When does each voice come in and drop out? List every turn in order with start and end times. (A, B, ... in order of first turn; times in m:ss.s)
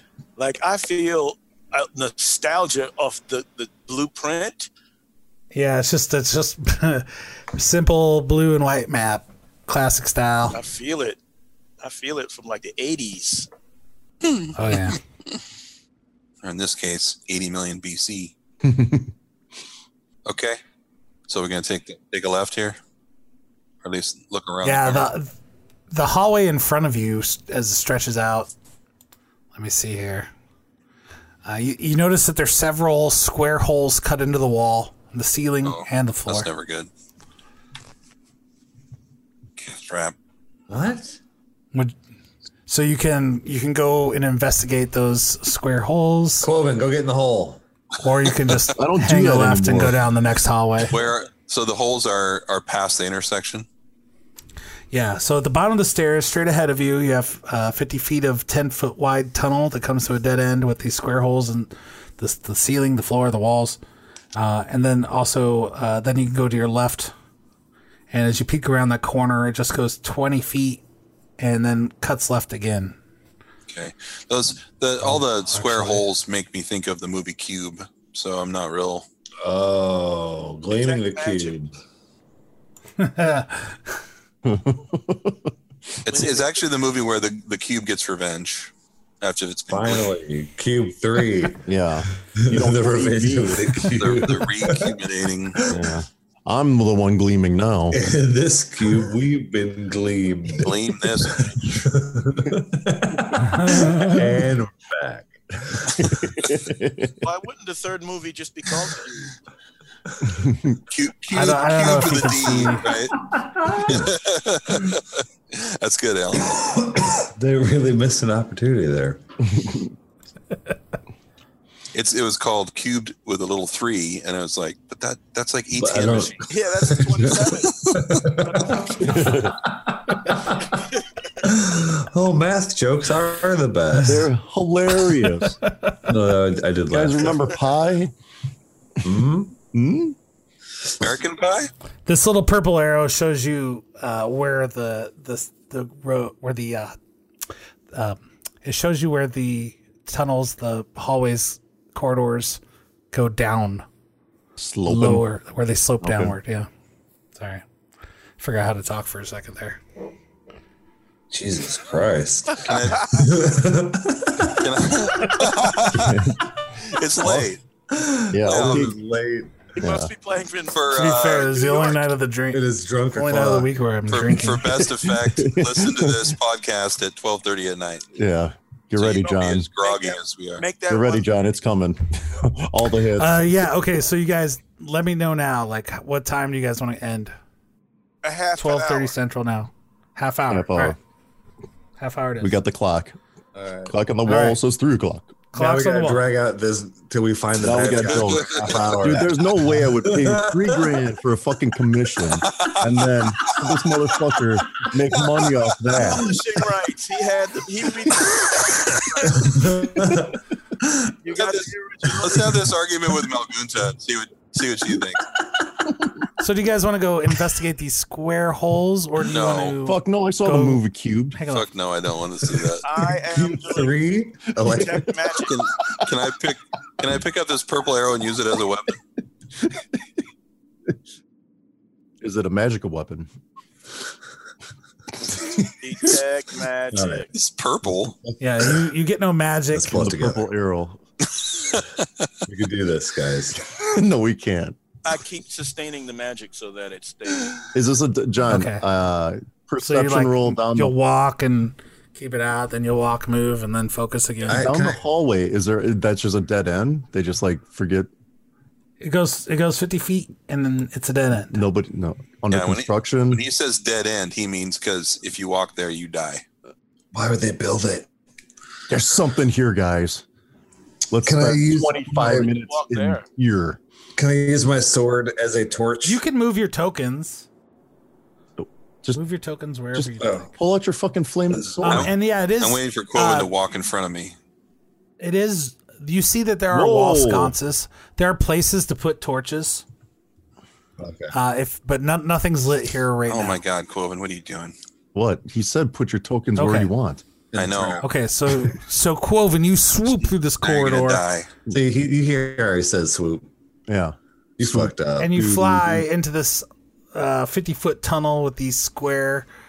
0:00.4-0:04.7 A
0:05.5-0:10.6 B
0:10.5-0:11.2 A
0:11.8-0:13.5 A
0:14.3-0:14.8 C
0:14.5-0:15.0 B
0:16.4-0:18.3 C
0:18.6-0:19.1 D
0:20.2-0:20.6 C
0:21.3-0:22.8 C
0:23.8-0:25.1 C
0:24.6-0:25.3 B
0:25.9-0:28.5 B
0:29.5-0:30.3 B
0:31.4-0:36.5 B
0:35.6-0:36.9 C
0:39.6-0:40.2 C
0:40.7-0:41.2 E
0:42.7-0:46.5 B
0:46.4-0:47.6 E
0:48.0-0:51.0 B
0:48.8-0:50.0 D
0:50.9-0:53.6 C
0:54.9-1:03.8 B
1:04.3-1:07.1 B
1:08.1-1:10.8 B
1:11.4-1:13.0 B
1:13.7-1:19.0 C
1:15.0-1:16.0 B
1:19.4-1:21.7 E
1:20.8-1:21.6 A
1:23.0-1:23.8 B
1:24.4-1:25.5 D
1:26.0-1:30.1 C
1:26.1-1:26.5 A
1:29.7-1:31.6 E
1:31.6-1:33.9 D
1:32.3-1:35.0 E
1:34.0-1:35.6 C
1:35.5-1:35.9 E
1:35.7-1:38.0 D
1:37.9-1:46.0 E
1:40.6-1:41.5 C
1:43.6-1:44.2 B
1:45.9-1:47.2 D
1:47.2-1:49.3 A
1:50.3-1:50.8 D
1:50.9-1:53.2 C
1:51.3-1:52.8 B
1:53.3-1:54.1 E
1:53.7-1:56.6 C
1:56.5-1:59.2 E
1:59.5-1:59.9 D
2:01.9-2:06.4 C
2:05.8-2:10.8 E
2:06.0-2:07.8 A
2:08.5-2:08.9 A
2:09.0-2:09.5 D
2:11.4-2:14.3 E
2:14.0-2:15.6 D
2:15.6-2:15.9 B
2:16.0-2:17.5 E
2:16.9-2:18.1 D
2:19.0-2:19.6 E
2:19.7-2:20.2 D
2:21.0-2:21.7 C
2:22.0-2:26.9 B
2:27.9-2:32.6 B
2:33.1-2:33.8 B
2:34.6-2:35.2 D
2:34.8-2:36.7 B
2:36.0-2:36.3 D
2:37.3-2:37.6 B
2:38.4-2:39.8 B
2:41.3-2:45.2 E
2:42.6-2:43.2 C
2:44.6-2:46.2 C
2:45.9-2:46.5 D
2:46.8-2:47.6 C
2:47.2-2:47.5 D
2:47.9-2:49.6 E
2:48.3-2:49.0 D
2:48.4-2:48.9 C
2:49.8-2:51.2 A
2:49.8-2:50.1 D
2:50.7-2:52.0 C
2:50.9-2:54.7 B
2:52.5-2:53.7 E
2:54.1-2:58.0 C
2:54.6-2:56.3 D
2:58.1-2:59.7 D
2:59.0-3:00.6 C
2:59.8-3:01.3 A
3:00.9-3:03.4 D
3:03.2-3:07.3 B
3:08.2-3:09.1 A
3:08.6-3:11.0 B
3:10.5-3:11.0 D
3:12.0-3:12.6 B
3:12.4-3:13.2 D
3:13.5-3:14.0 E
3:13.9-3:15.4 D
3:14.2-3:14.6 B
3:15.5-3:16.2 B
3:15.5-3:21.0 E
3:17.6-3:26.3 D
3:18.1-3:18.6 C
3:22.5-3:22.9 C
3:25.1-3:25.6 C
3:26.0-3:29.4 A
3:28.2-3:29.2 C
3:29.3-3:31.1 E
3:31.2-3:32.6 A
3:31.3-3:35.2 C
3:36.4-3:41.7 B
3:39.2-3:39.8 C
3:39.8-3:41.4 D
3:41.5-3:42.8 C
3:42.8-3:44.0 A
3:43.3-3:45.0 E
3:44.6-3:45.6 A
3:44.6-3:45.1 D
3:45.5-3:49.0 C
3:52.2-3:53.3 D
3:55.3-3:56.1 D
3:55.8-3:57.3 A
3:56.9-3:57.3 E
3:57.3-3:58.1 C
3:58.4-4:00.0 B
3:59.7-4:00.5 E
3:59.9-4:01.0 D
4:01.5-4:02.2 C
4:02.4-4:03.6 E
4:03.6-4:04.8 D
4:05.0-4:07.7 A
4:07.7-4:10.9 D
4:08.4-4:08.8 B
4:09.8-4:14.7 B
4:14.5-4:15.0 E
4:14.5-4:18.1 D
4:19.0-4:21.6 B
4:21.5-4:23.4 D
4:22.5-4:26.4 C
4:27.1-4:28.1 E
4:28.9-4:30.2 D
4:31.1-4:33.8 D
4:31.2-4:32.5 E
4:32.5-4:33.2 A
4:34.2-4:36.2 E
4:36.0-4:37.4 B
4:38.6-4:39.2 D
4:39.1-4:40.5 B
4:39.9-4:42.1 D
4:40.2-4:40.5 E
4:41.5-4:41.8 E
4:41.8-4:43.5 B
4:41.9-4:44.4 C
4:45.2-4:49.8 B
4:46.7-4:47.5 D
4:51.0-4:51.3 E
4:51.3-4:53.6 B
4:53.3-4:54.7 C
4:55.1-4:57.2 D
4:56.6-4:56.9 B
4:57.5-4:58.0 E
4:57.5-4:58.0 C
4:58.0-5:01.2 B
5:00.6-5:01.5 C
5:01.7-5:03.5 E
5:03.9-5:04.9 D
5:04.6-5:06.0 E
5:05.2-5:09.5 B